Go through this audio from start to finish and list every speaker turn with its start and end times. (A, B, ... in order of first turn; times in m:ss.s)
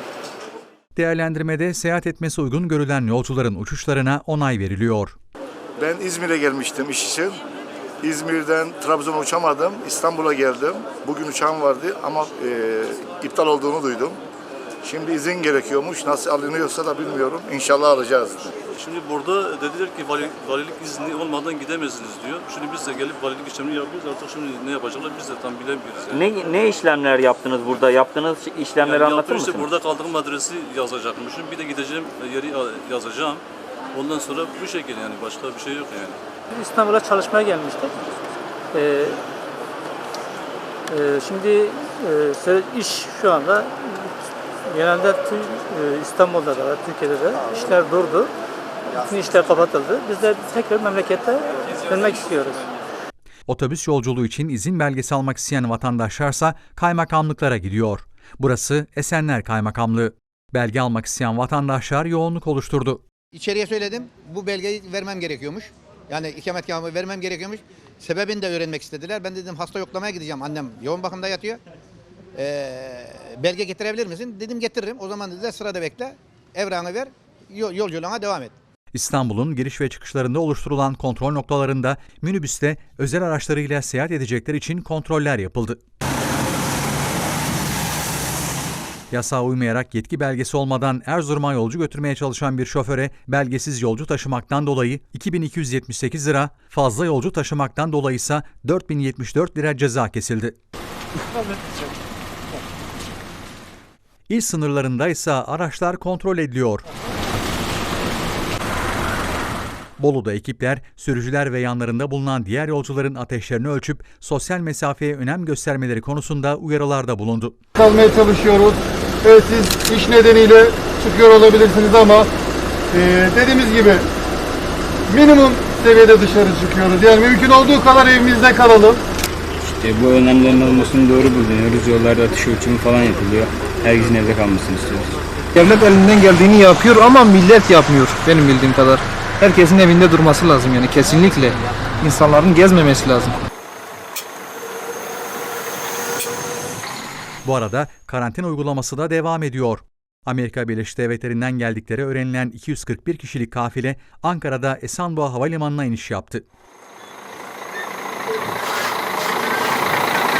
0:01.0-0:05.2 A
0:05.8-0:07.4 B
0:08.0-0:14.2 B
0:14.8-0:18.5 B
0:18.8-0:26.2 C
0:26.1-0:29.7 D
0:28.8-0:33.4 C
0:33.9-0:36.2 C
0:36.5-0:38.1 E
0:38.7-0:39.2 E
0:40.9-0:44.1 E
0:44.7-0:48.3 E
0:48.9-0:52.7 E
0:53.5-1:03.0 A
1:03.3-1:11.6 F
1:12.3-1:18.5 F
1:18.9-1:25.8 A
1:29.1-1:40.6 A
1:44.3-1:46.8 A
1:50.0-1:57.6 A
1:57.8-2:02.3 G
2:02.9-2:04.0 G
2:05.1-2:09.0 G
2:09.6-2:15.2 H
2:15.5-2:23.3 I
2:27.4-2:36.4 A